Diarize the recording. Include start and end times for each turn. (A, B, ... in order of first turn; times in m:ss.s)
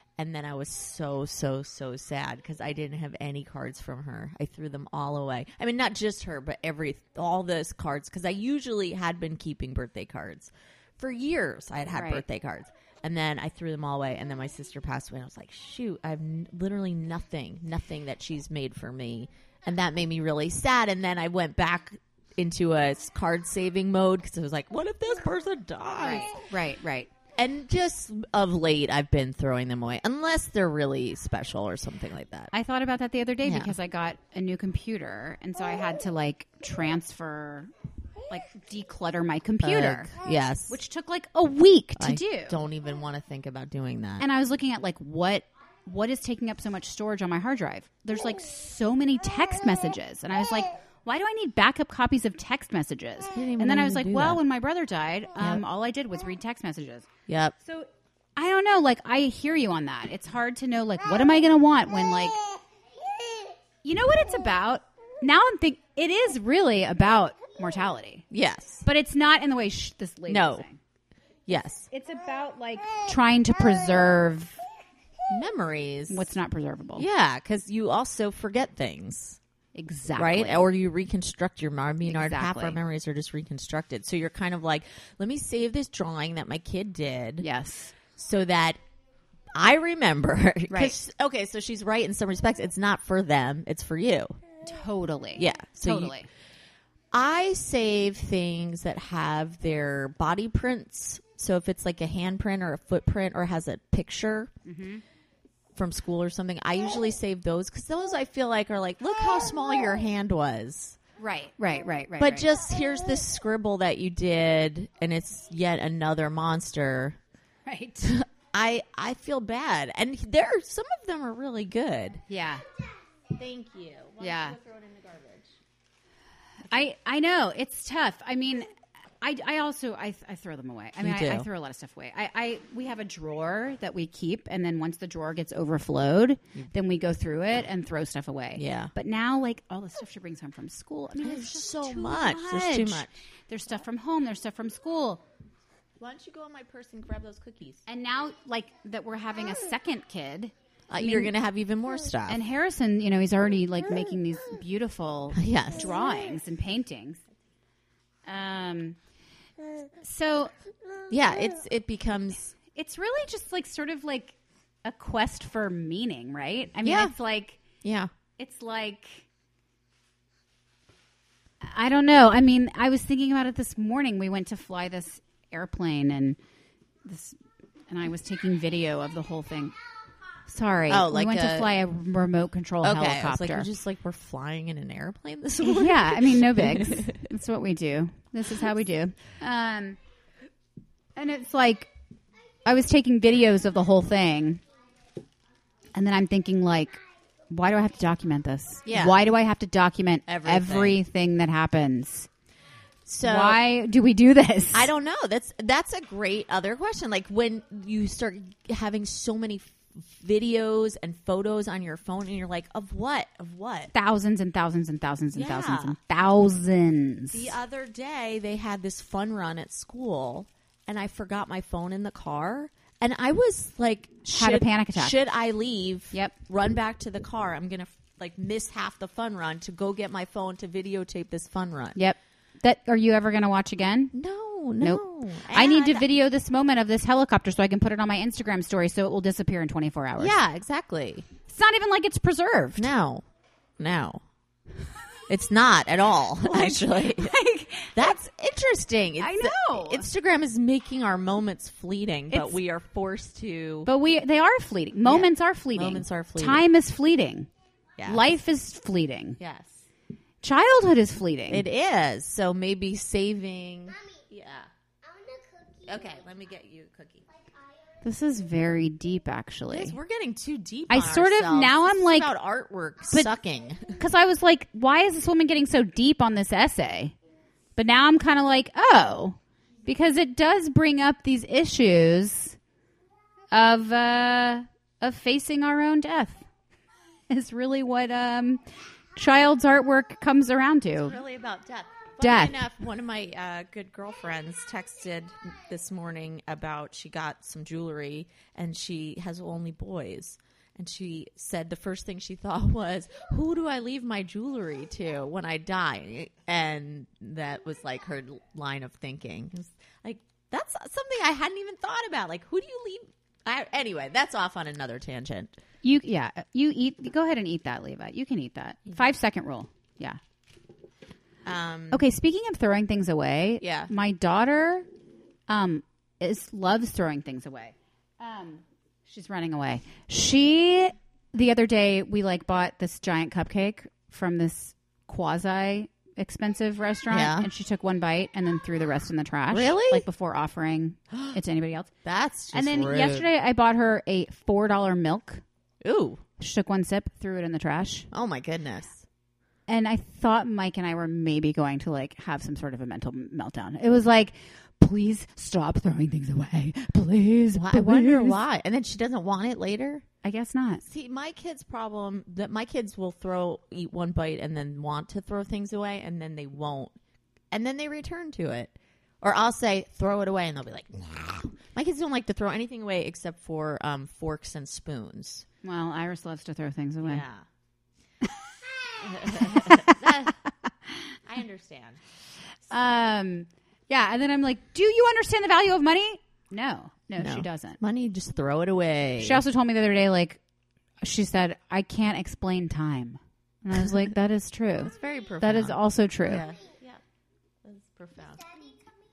0:00.2-0:26.4 A
0:11.9-0:12.2 B
0:26.0-0:27.1 B
0:27.4-0:32.5 A
0:32.5-0:37.7 B
0:33.4-0:33.7 A
0:38.3-0:40.1 B
0:39.6-0:40.8 A
0:40.7-0:42.6 B
0:42.0-0:44.2 A
0:44.2-0:57.1 B
0:53.3-0:54.4 A
0:57.3-0:57.5 A
0:57.6-1:02.4 B
1:03.8-1:08.2 B
1:08.3-1:08.8 A
1:08.8-1:10.8 B
1:10.3-1:10.6 A
1:11.5-1:11.9 A
1:11.9-1:14.6 B
1:15.3-1:16.3 A
1:16.1-1:17.0 B
1:17.0-1:19.4 A
1:19.7-1:20.7 B
1:20.1-1:27.4 A
1:22.0-1:22.8 B
1:27.4-1:27.9 B
1:28.1-1:28.8 A
1:29.5-1:34.4 A
1:30.7-1:31.0 B
1:34.6-1:36.3 B
1:35.4-1:36.2 A
1:37.1-1:44.5 A
1:44.6-1:45.0 B
1:45.7-1:51.0 A
1:51.2-1:52.5 B
1:52.2-1:57.2 A
1:57.6-1:58.1 B
1:58.0-2:02.2 A
2:02.3-2:02.6 B
2:03.3-2:05.6 A
2:04.2-2:04.6 B
2:06.7-2:25.2 B
2:11.0-2:11.5 A
2:18.5-2:18.9 A
2:21.2-2:23.1 A
2:26.0-2:27.8 A
2:27.9-2:31.3 B
2:30.9-2:32.4 A
2:32.3-2:37.2 B
2:35.3-2:35.9 A
2:38.2-2:39.0 B
2:40.0-2:40.5 B
2:41.1-2:42.5 A
2:42.7-2:47.6 B
2:46.8-2:47.1 A
2:47.8-2:48.1 A
2:48.4-2:49.2 B
2:51.6-2:56.4 B
2:57.0-2:57.4 B
2:57.9-2:59.7 B
3:00.4-3:03.7 B
3:00.9-3:01.7 A
3:02.8-3:07.2 A
3:05.6-3:10.0 B
3:11.2-3:11.9 B
3:12.6-3:14.6 B
3:15.9-3:22.3 B
3:18.8-3:19.2 A
3:20.2-3:21.0 A
3:23.0-3:23.6 A
3:23.2-3:24.9 B
3:24.7-3:33.9 A
3:33.9-3:37.5 B
3:35.3-3:36.0 A
3:37.3-3:52.0 A
3:44.2-3:45.2 B
3:52.0-3:54.1 B
3:54.1-3:56.1 A
3:54.8-4:00.4 B
4:00.2-4:01.3 A
4:01.5-4:02.9 B
4:02.8-4:03.2 A
4:03.8-4:04.2 A
4:05.3-4:07.4 A
4:06.4-4:08.2 B
4:07.9-4:13.9 A
4:09.2-4:10.1 B
4:12.3-4:12.6 B
4:13.8-4:17.5 B
4:15.0-4:16.6 A
4:18.0-4:18.2 A
4:18.0-4:19.4 B
4:19.4-4:19.8 A
4:20.4-4:21.6 B
4:21.5-4:24.7 A
4:23.9-4:24.2 C
4:25.0-4:26.4 C
4:25.8-4:27.2 A
4:27.3-4:28.0 C
4:28.0-4:30.0 B
4:29.7-4:34.0 A
4:30.9-4:32.3 B
4:34.0-4:37.1 B
4:37.8-4:42.6 B
4:43.5-4:46.4 B
4:47.3-4:48.6 B
4:49.2-4:51.2 B
4:51.0-5:15.6 A
4:52.2-4:52.6 B
5:15.8-5:20.2 B
5:21.4-5:22.0 A
5:21.9-5:24.9 B
5:23.6-5:23.9 A
5:25.5-5:41.9 B
5:37.1-5:37.5 A
5:39.5-5:40.0 A
5:41.1-5:41.4 A
5:42.0-5:43.2 A
5:42.5-5:45.4 B
5:45.8-5:46.2 A
5:46.4-5:48.1 B
5:48.1-5:49.0 A
5:49.7-5:58.4 B
5:57.5-6:00.0 A
6:00.2-6:00.8 B
6:00.8-6:06.9 A
6:07.5-6:15.4 A
6:15.6-6:17.2 B
6:17.0-6:17.4 A
6:19.0-6:20.4 A
6:19.2-6:20.3 B
6:21.2-6:22.0 A
6:22.7-6:27.8 B
6:27.2-6:29.4 A
6:29.2-6:30.4 B
6:31.0-6:36.4 B
6:34.8-6:37.0 A
6:37.6-6:38.5 A
6:38.3-6:38.9 C